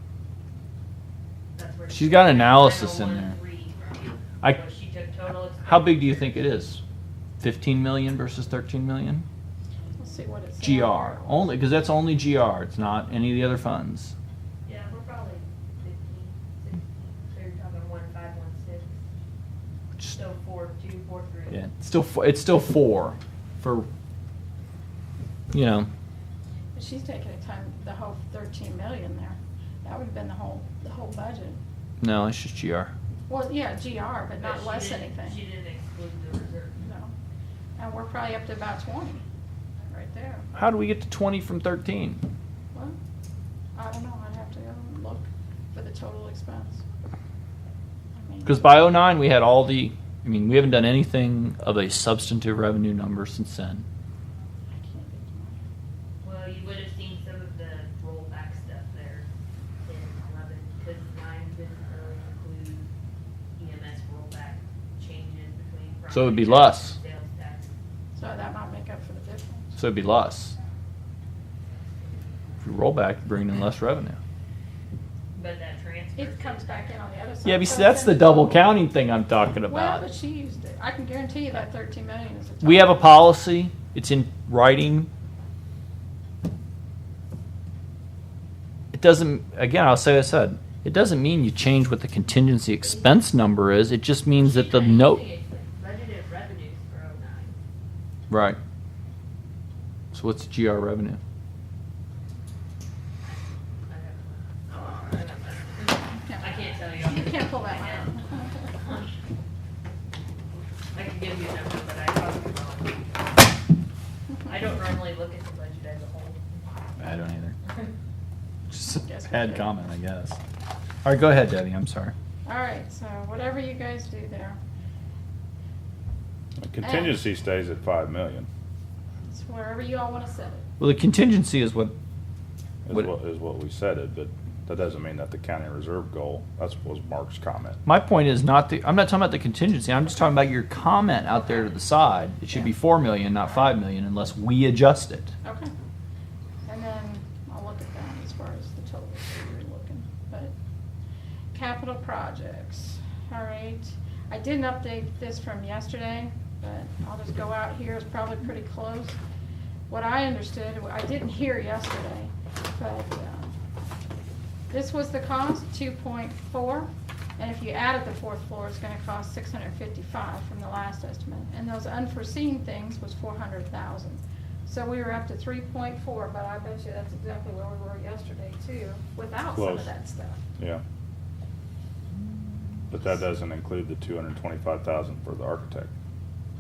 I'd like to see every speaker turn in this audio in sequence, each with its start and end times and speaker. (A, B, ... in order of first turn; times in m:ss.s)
0:01.6-0:06.4 A
0:01.9-0:03.4 B
0:05.7-0:06.8 B
0:07.4-0:09.3 B
0:10.0-0:11.6 C
0:10.6-0:14.1 B
0:14.6-0:19.0 A
0:20.1-0:21.7 A
0:21.5-0:23.9 B
0:25.5-0:25.9 B
0:26.8-0:31.6 C
0:32.0-0:32.9 B
0:33.3-0:35.4 C
0:34.4-0:36.9 A
0:36.8-0:37.1 C
0:37.8-0:39.2 C
0:39.9-0:40.5 C
0:40.6-0:42.2 B
0:42.7-0:43.0 C
0:43.8-0:46.8 C
0:48.2-0:48.8 C
0:48.4-0:53.8 B
0:54.7-0:55.6 C
0:56.2-0:59.3 A
0:59.8-1:02.9 A
1:03.6-1:07.7 A
1:06.1-1:07.0 B
1:08.2-1:09.8 C
1:09.8-1:10.6 B
1:12.6-1:14.2 B
1:15.3-1:17.0 A
1:16.2-1:18.7 C
1:17.4-1:20.0 B
1:19.7-1:23.3 C
1:22.6-1:25.1 B
1:28.9-1:35.2 B
1:34.4-1:37.6 A
1:38.3-1:38.6 B
1:40.1-1:41.2 B
1:43.9-1:48.2 A
1:46.3-1:48.7 C
1:48.8-1:49.1 A
1:50.9-1:53.5 A
1:54.4-1:56.7 A
1:57.0-1:57.6 B
1:58.7-2:00.4 B
1:59.0-1:59.7 C
2:01.0-2:02.1 B
2:02.5-2:04.6 C
2:06.6-2:08.5 D
2:06.8-2:07.2 C
2:09.3-2:10.6 C
2:10.8-2:11.9 B
2:12.8-2:17.8 D
2:17.8-2:25.3 B
2:25.4-2:25.7 C
2:26.7-2:30.5 C
2:31.5-2:39.2 C
2:39.9-2:43.5 C
2:44.7-3:00.4 C
2:59.5-2:59.9 D
3:02.9-3:05.9 D